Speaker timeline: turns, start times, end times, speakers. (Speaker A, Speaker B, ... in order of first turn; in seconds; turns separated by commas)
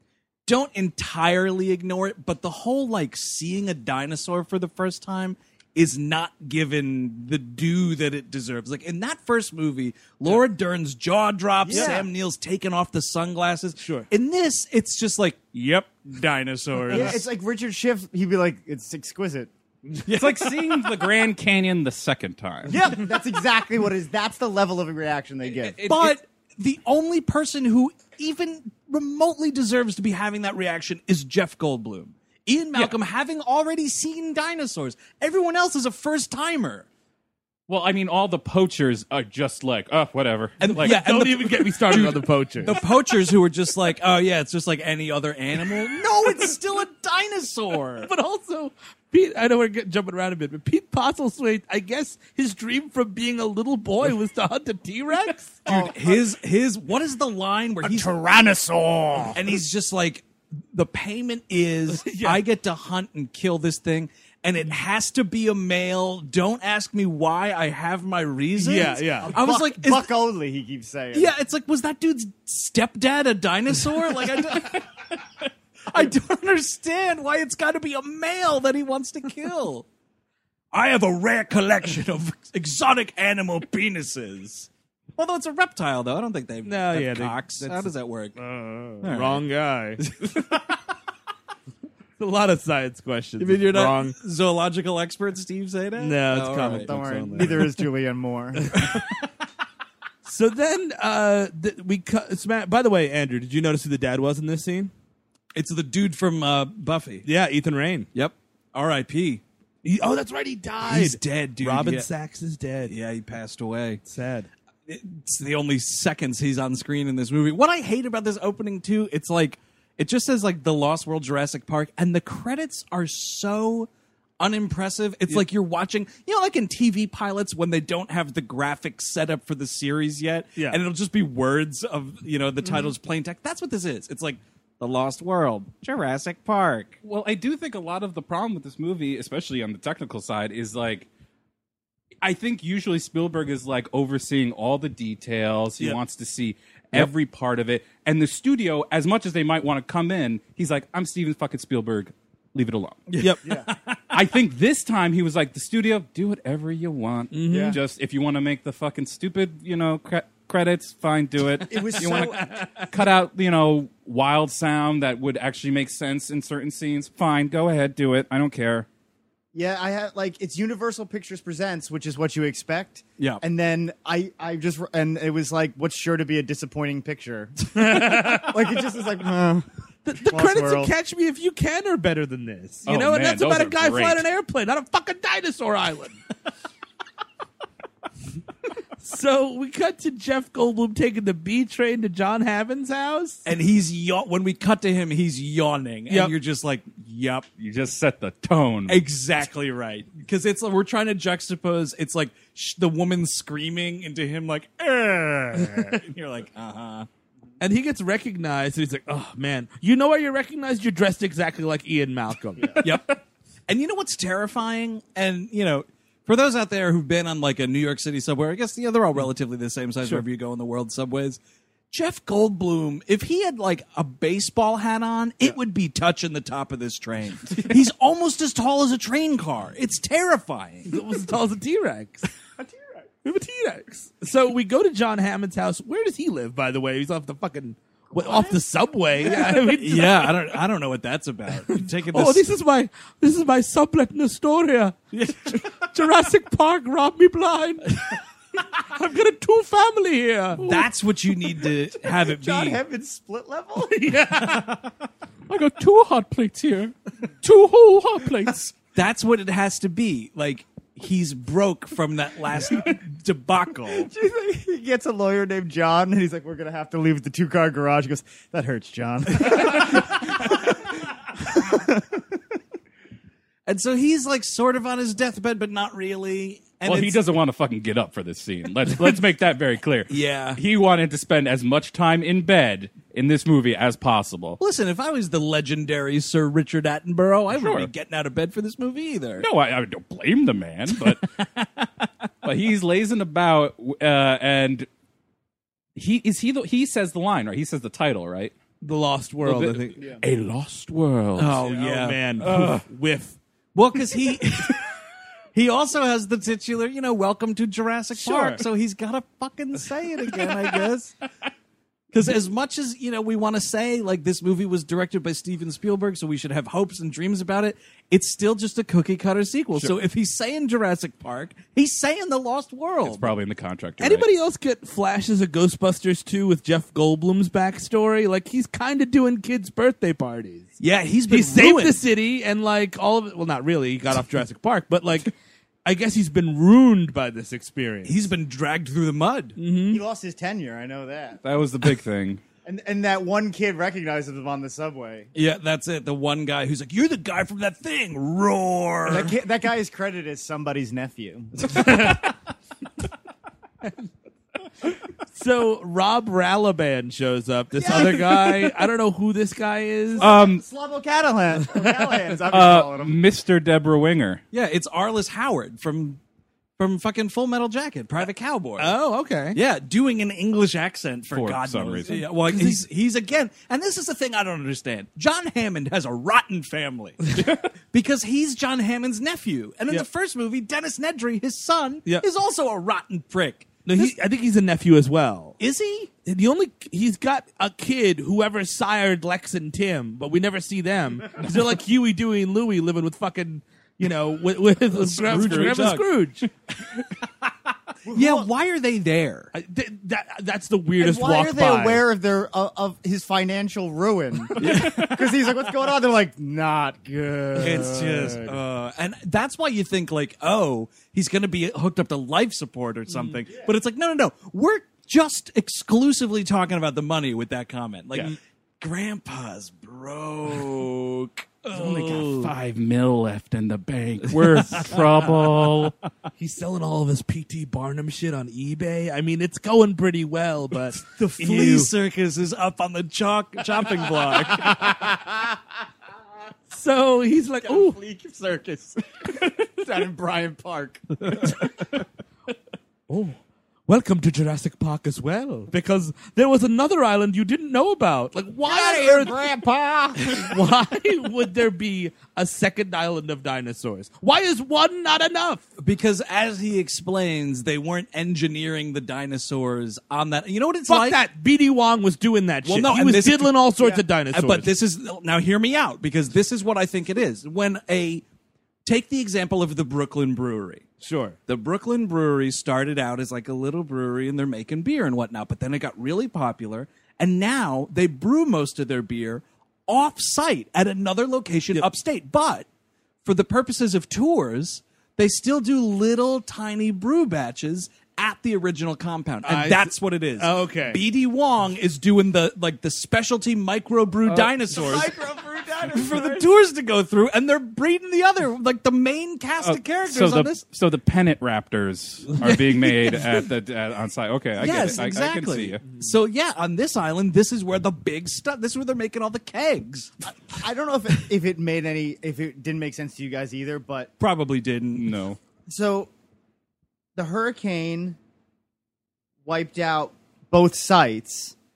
Speaker A: 0.5-17.2, Speaker B: 11.7-12.1, Speaker C: 11.7-12.0, Speaker C: 13.8-14.1, Speaker B: 16.9-19.5, Speaker A: 20.1-20.5, Speaker D: 20.1-22.8, Speaker B: 22.7-25.8, Speaker D: 25.6-26.2, Speaker A: 25.9-36.9, Speaker D: 37.7-41.0, Speaker A: 40.6-48.1, Speaker C: 40.8-42.8, Speaker C: 48.0-55.7, Speaker B: 55.7-56.2, Speaker A: 55.7-58.2, Speaker B: 57.8-59.4, Speaker A: 59.3-70.1, Speaker C: 61.9-62.4, Speaker C: 68.6-69.3, Speaker B: 69.2-71.3, Speaker A: 71.1-74.9, Speaker A: 75.9-79.9, Speaker A: 80.7-88.4, Speaker C: 86.7-87.9, Speaker C: 88.4-90.0, Speaker A: 89.0-89.4, Speaker A: 90.0-90.6, Speaker C: 92.2-94.2, Speaker A: 93.4-97.6, Speaker C: 96.0-97.9, Speaker B: 96.7-98.7, Speaker C: 98.6-99.1, Speaker C: 100.2-104.9, Speaker A: 105.5-107.3, Speaker C: 107.2-108.1, Speaker A: 108.1-109.4, Speaker C: 109.8-112.9, Speaker A: 110.9-112.1, Speaker A: 112.9-114.0, Speaker C: 114.0-114.5, Speaker A: 114.9-123.9, Speaker A: 124.4-137.0, Speaker C: 132.6-132.9, Speaker D: 137.0-141.1, Speaker D: 142.2-153.1, Speaker A: 153.1-154.2, Speaker D: 154.1-168.9, Speaker C: 157.3-157.8, Speaker B: 157.5-157.8, Speaker B: 161.7-162.5, Speaker A: 162.1-162.8, Speaker B: 169.5-179.7, Speaker C: 177.8-178.6, Speaker C: 180.1-186.2, Speaker B: 180.2-180.9, Speaker D: 182.9-184.3, Speaker C: 189.0-193.4, Speaker A: 193.4-197.5, Speaker C: 196.1-196.3, Speaker D: 197.6-199.0, Speaker A: 198.9-207.1, Speaker C: 207.6-212.8, Speaker A: 212.8-221.4, Speaker A: 221.9-230.9, Speaker C: 230.9-232.3, Speaker B: 232.6-233.1, Speaker C: 233.2-240.4, Speaker B: 238.1-238.6, Speaker B: 239.2-239.6, Speaker A: 239.4-242.4, Speaker C: 241.7-248.2, Speaker A: 245.2-245.6, Speaker C: 248.7-250.6, Speaker D: 250.6-250.9, Speaker A: 250.6-252.8, Speaker B: 251.9-254.8, Speaker C: 253.8-254.8, Speaker D: 255.5-258.7, Speaker A: 258.9-264.1, Speaker B: 263.9-272.4, Speaker A: 273.7-277.2, Speaker D: 276.9-284.6, Speaker A: 280.1-280.6, Speaker A: 284.6-289.5, Speaker D: 287.5-287.9, Speaker D: 289.4-291.3, Speaker A: 291.1-291.9, Speaker D: 292.4-294.9, Speaker D: 296.0-298.5, Speaker C: 298.8-300.1, Speaker D: 299.4-301.6, Speaker A: 301.4-302.2, Speaker C: 301.5-303.4, Speaker D: 302.4-302.9, Speaker A: 303.8-304.9, Speaker A: 305.5-311.1, Speaker C: 308.1-308.6, Speaker A: 312.1-323.3, Speaker D: 323.0-324.3, Speaker C: 324.0-330.7, Speaker A: 330.8-332.0, Speaker C: 331.3-335.3, Speaker C: 335.9-338.2, Speaker A: 338.1-339.6, Speaker C: 339.6-340.0, Speaker B: 339.9-341.4, Speaker D: 341.4-342.4, Speaker B: 342.6-345.3, Speaker A: 345.3-349.4, Speaker B: 349.1-352.2, Speaker C: 351.7-352.2, Speaker C: 355.3-360.4, Speaker B: 357.7-358.6, Speaker B: 360.1-363.2, Speaker D: 360.2-360.6, Speaker C: 361.8-362.2, Speaker D: 362.5-364.4, Speaker A: 364.5-366.2, Speaker A: 366.8-368.9, Speaker C: 368.8-369.6, Speaker A: 369.5-384.1, Speaker D: 371.3-372.2, Speaker C: 372.1-372.8, Speaker C: 383.9-385.6, Speaker A: 385.6-386.1, Speaker C: 386.2-396.5, Speaker A: 394.9-396.1, Speaker D: 395.3-395.9, Speaker B: 398.1-398.5, Speaker A: 398.1-399.5, Speaker C: 399.5-402.0, Speaker B: 401.0-408.6, Speaker A: 404.6-405.1, Speaker A: 407.6-422.5, Speaker C: 413.1-413.4, Speaker D: 421.7-425.9, Speaker C: 426.4-431.9, Speaker A: 431.0-434.7, Speaker B: 434.2-435.6, Speaker C: 436.7-438.0, Speaker B: 437.6-441.7, Speaker C: 443.1-449.5, Speaker B: 448.6-450.7, Speaker C: 450.3-455.6, Speaker A: 455.8-461.2, Speaker C: 460.9-464.7, Speaker A: 462.6-468.2, Speaker A: 468.9-470.9, Speaker C: 471.0-471.4, Speaker A: 471.5-482.7, Speaker A: 483.2-495.1, Speaker C: 489.4-491.0, Speaker B: 494.7-496.5, Speaker A: 495.8-500.6, Speaker D: 499.6-505.8, Speaker C: 502.3-503.5, Speaker A: 504.6-510.1, Speaker C: 505.9-506.1, Speaker B: 510.4-514.1, Speaker A: 514.2-515.1, Speaker D: 515.0-515.4, Speaker B: 515.7-516.1, Speaker B: 517.2-518.2, Speaker B: 519.5-521.5